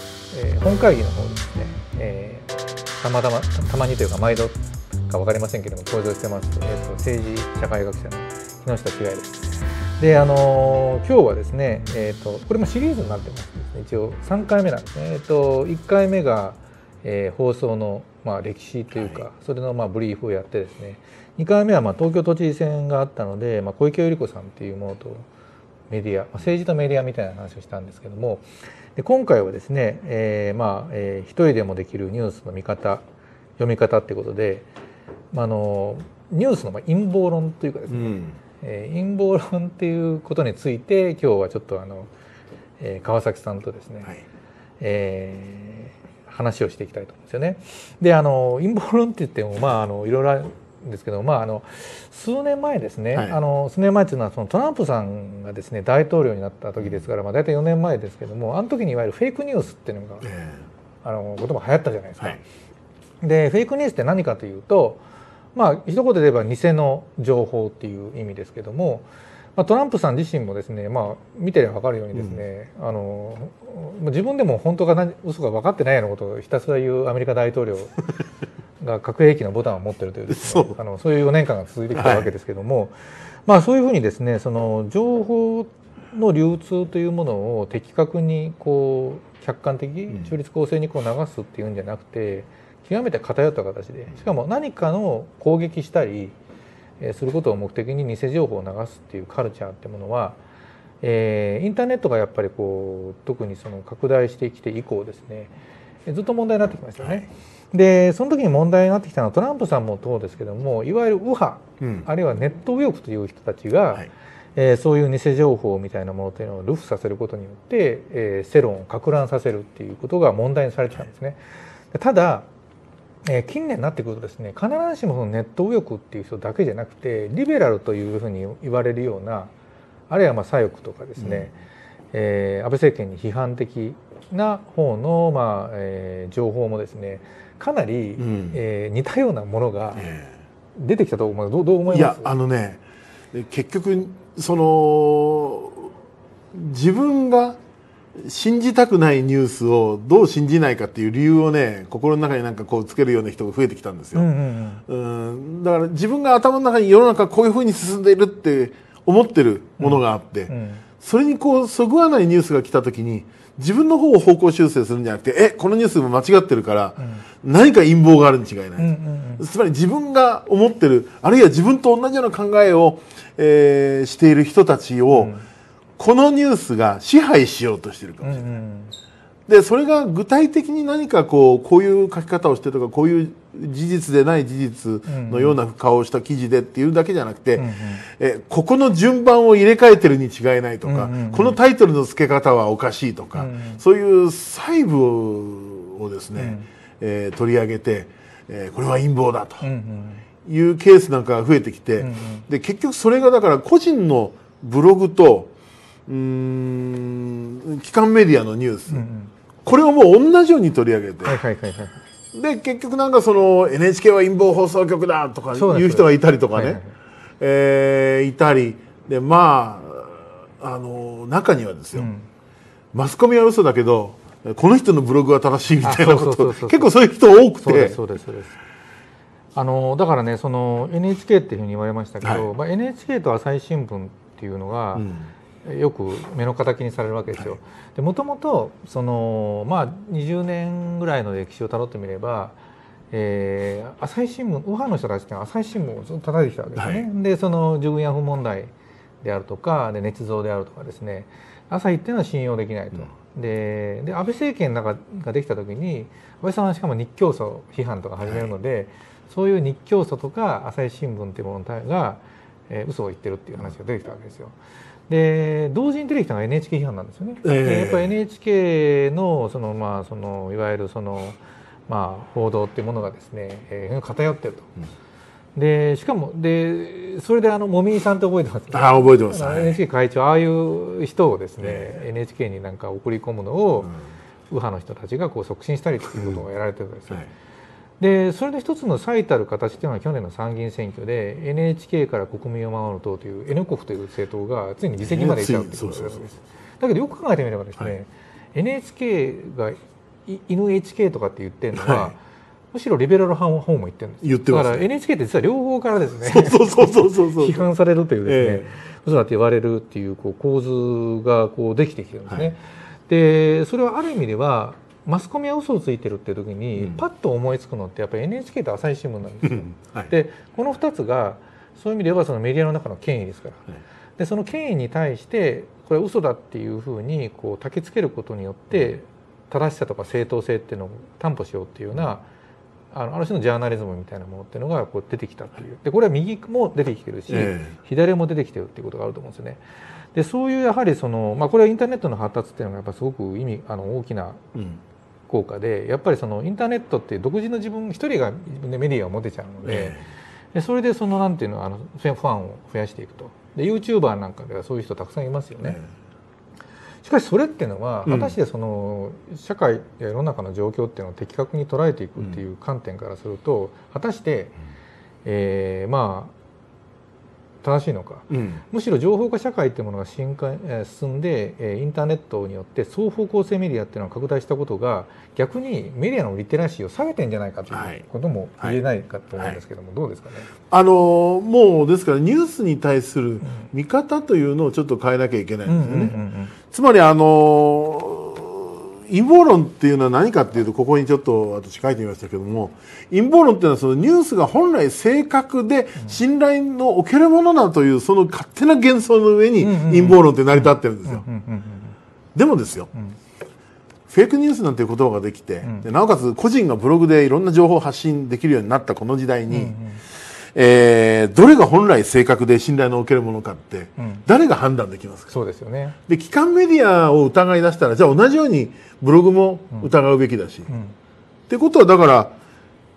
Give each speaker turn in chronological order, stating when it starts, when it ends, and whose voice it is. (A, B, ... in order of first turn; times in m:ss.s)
0:00.3-0:04.6 A
0:05.1-0:25.3 A
0:19.0-0:19.2 B
0:25.9-0:33.0 A
0:33.6-0:34.7 A
0:35.3-0:42.1 A
0:37.9-0:38.4 B
0:42.8-0:44.2 A
0:44.8-1:00.3 A
1:00.2-1:00.6 B
1:01.0-1:02.4 A
1:03.2-1:05.0 A
1:05.6-1:18.0 A
1:12.2-1:12.4 B
1:18.8-1:23.0 A
1:20.3-1:20.7 B
1:22.0-1:22.3 B
1:23.5-1:36.4 A
1:37.0-1:40.4 A
1:41.0-1:45.5 A
1:46.1-2:01.4 A
1:51.8-1:52.1 B
2:01.9-2:02.5 A
2:03.2-2:09.5 A
2:10.1-2:11.6 A
2:11.2-2:11.5 B
2:12.1-2:20.1 A
2:18.2-2:18.6 B
2:20.0-2:20.3 B
2:20.8-2:22.3 A
2:21.9-2:22.8 B
2:23.3-2:25.9 B
2:26.5-2:27.6 B
2:28.2-2:34.3 B
2:34.2-2:34.8 A
2:34.9-2:55.3 B
2:39.8-2:40.8 A
2:47.0-2:47.2 A
2:48.8-2:49.4 A
2:55.1-2:55.4 A
2:56.0-2:58.5 B
2:58.2-2:58.9 A
2:59.5-3:19.7 B
3:05.1-3:05.6 A
3:07.6-3:08.0 A
3:10.8-3:11.6 A
3:13.4-3:13.8 A
3:16.4-3:16.7 A
3:19.6-3:20.2 A
3:20.4-3:25.5 B
3:22.0-3:22.4 A
3:26.1-3:29.0 B
3:28.9-3:29.3 A
3:29.6-3:31.4 B
3:31.2-3:32.0 A
3:32.3-3:36.8 B
3:35.5-3:36.9 A
3:37.4-3:42.1 B
3:42.0-3:42.3 A
3:42.9-3:48.0 B
3:45.8-3:46.9 A
3:47.6-3:48.6 A
3:49.6-3:55.1 A
3:55.0-3:55.3 B
3:55.6-4:02.6 A
4:03.1-4:08.7 A
4:06.8-4:07.1 B
4:09.2-4:24.6 A
4:25.1-4:34.8 A
4:27.4-4:28.1 B
4:35.6-4:44.0 A
4:38.7-4:39.8 B
4:41.6-4:42.0 B
4:44.5-4:47.3 A
4:48.0-5:02.2 A
4:55.0-4:56.3 B
5:01.8-5:02.1 B
5:02.7-5:23.7 A
5:04.2-5:04.8 B
5:06.2-5:07.7 B
5:08.2-5:08.7 B
5:19.4-5:20.1 B
5:24.2-5:32.2 A
5:32.9-5:39.6 A
5:37.3-5:37.7 B
5:40.2-5:44.5 A
5:44.6-5:44.8 B
5:45.3-5:50.0 A
5:49.6-5:50.0 B
5:50.5-5:55.8 A
5:57.0-6:04.6 A
5:58.0-5:58.4 B
6:05.2-6:06.3 A
6:07.6-6:20.5 A
6:08.3-6:08.6 B
6:17.7-6:18.0 B
6:20.7-6:26.2 B
6:25.7-6:26.5 A
6:26.7-6:41.2 B
6:39.6-6:42.0 A
6:42.4-6:42.9 B
6:44.1-6:49.8 B
6:49.5-6:50.0 A
6:50.4-6:55.4 B
6:54.0-6:54.2 A
6:55.3-6:56.0 A
6:56.1-7:00.7 B
7:00.7-7:00.9 A
7:01.5-7:02.3 B